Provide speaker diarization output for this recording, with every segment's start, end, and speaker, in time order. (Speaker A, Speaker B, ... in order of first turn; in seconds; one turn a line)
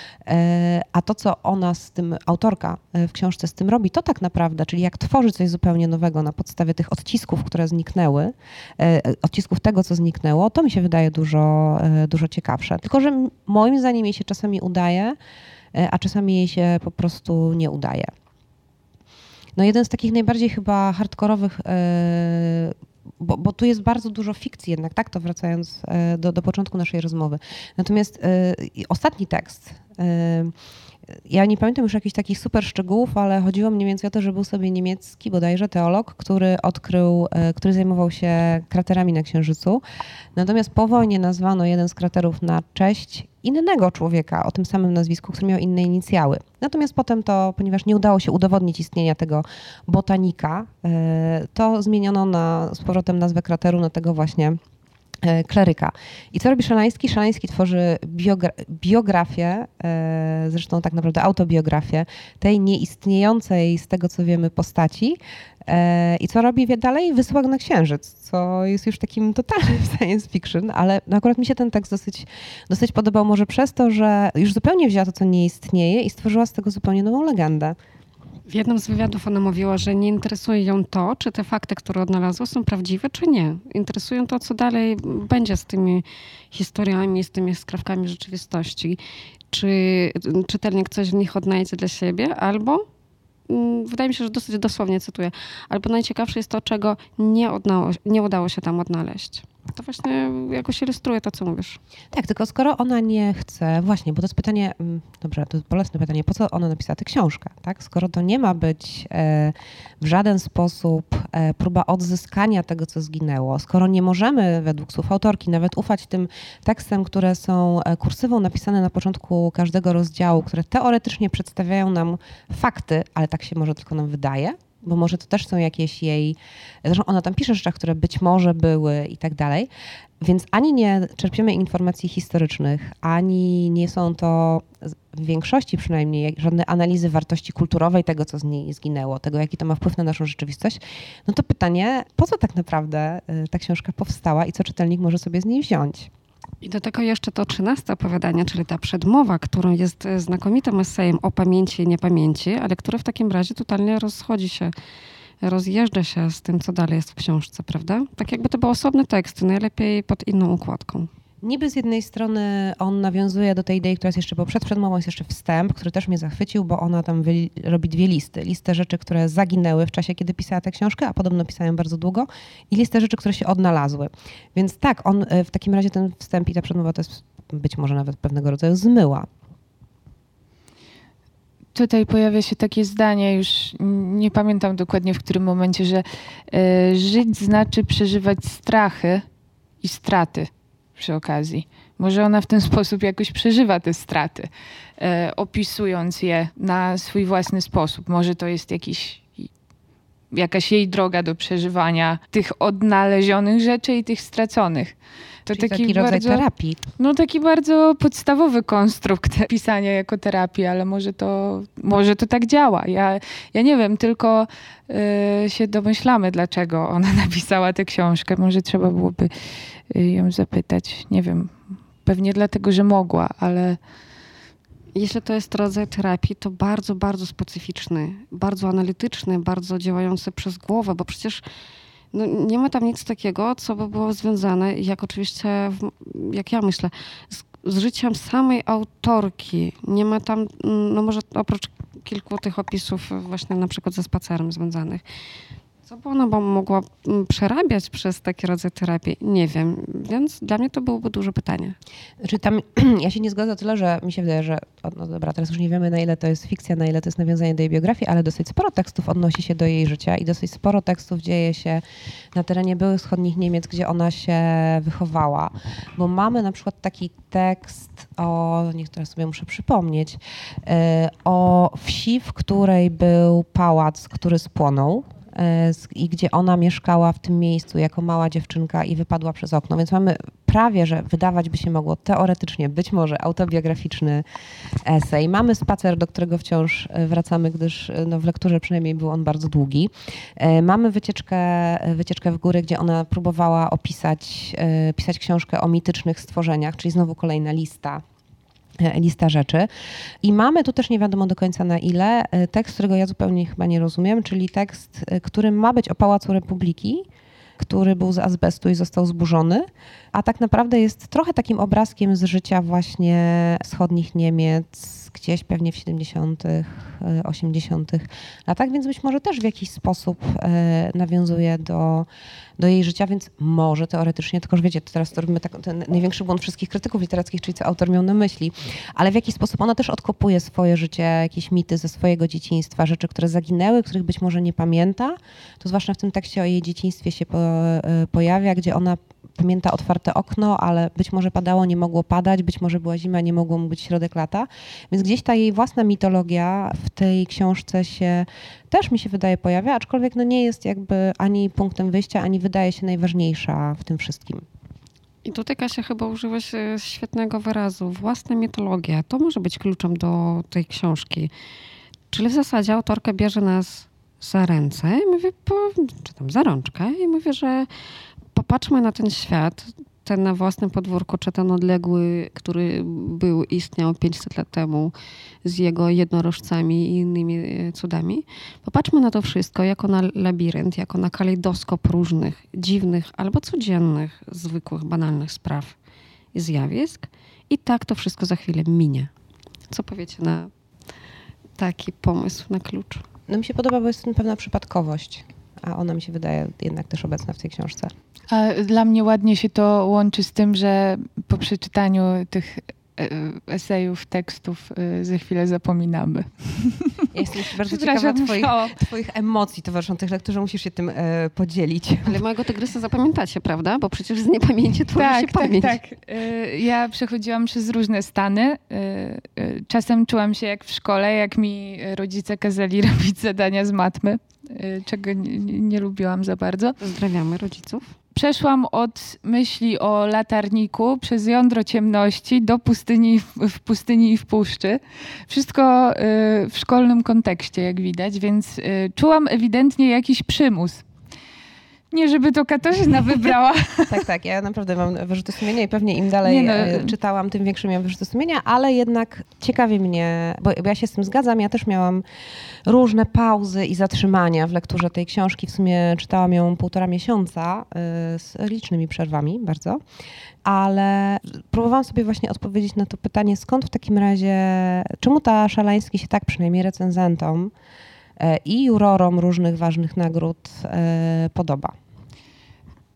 Speaker A: 0.2-15.2
Speaker A: 15.7-18.1
Speaker A: 19.6-30.5
Speaker A: 31.3-39.8
Speaker A: 40.3-54.6
Speaker A: 55.2-77.8
Speaker B: 78.5-89.0
Speaker B: 89.5-92.8
Speaker B: 93.5-101.8
Speaker A: 102.1-129.7
Speaker A: 130.2-146.1
Speaker B: 146.6-154.7
Speaker B: 155.4-161.1
Speaker A: 161.4-179.3
Speaker C: 181.7-189.2
Speaker C: 189.8-199.5
Speaker C: 200.3-204.9
Speaker C: 205.4-206.4
Speaker A: 205.5-206.8
Speaker C: 207.0-219.3
Speaker C: 219.9-223.8
Speaker B: 224.9-231.4
Speaker B: 232.1-245.0
Speaker B: 245.8-251.8
Speaker A: 252.2-261.8
Speaker A: 262.3-284.2
Speaker A: 284.8-298.0
Speaker A: 298.8-299.7
Speaker A: 300.2-307.1
Speaker A: 307.6-354.4
Speaker B: 355.2-361.3
Speaker B: 362.1-367.7
Speaker B: 368.3-374.9
Speaker B: 375.4-385.8
Speaker B: 386.3-389.1
Speaker B: 389.7-390.5
Speaker B: 391.6-393.0
Speaker A: 393.3-397.9
Speaker C: 398.3-407.1
Speaker A: 407.1-412.2
Speaker C: 407.6-408.8
Speaker B: 412.0-415.8
Speaker C: 414.9-426.8
Speaker B: 426.8-427.9
Speaker C: 428.1-440.8
Speaker C: 441.9-444.0
Speaker A: 443.9-452.0
Speaker C: 446.2-446.9
Speaker A: 452.6-459.8
Speaker A: 460.4-467.5
Speaker A: 468.2-471.7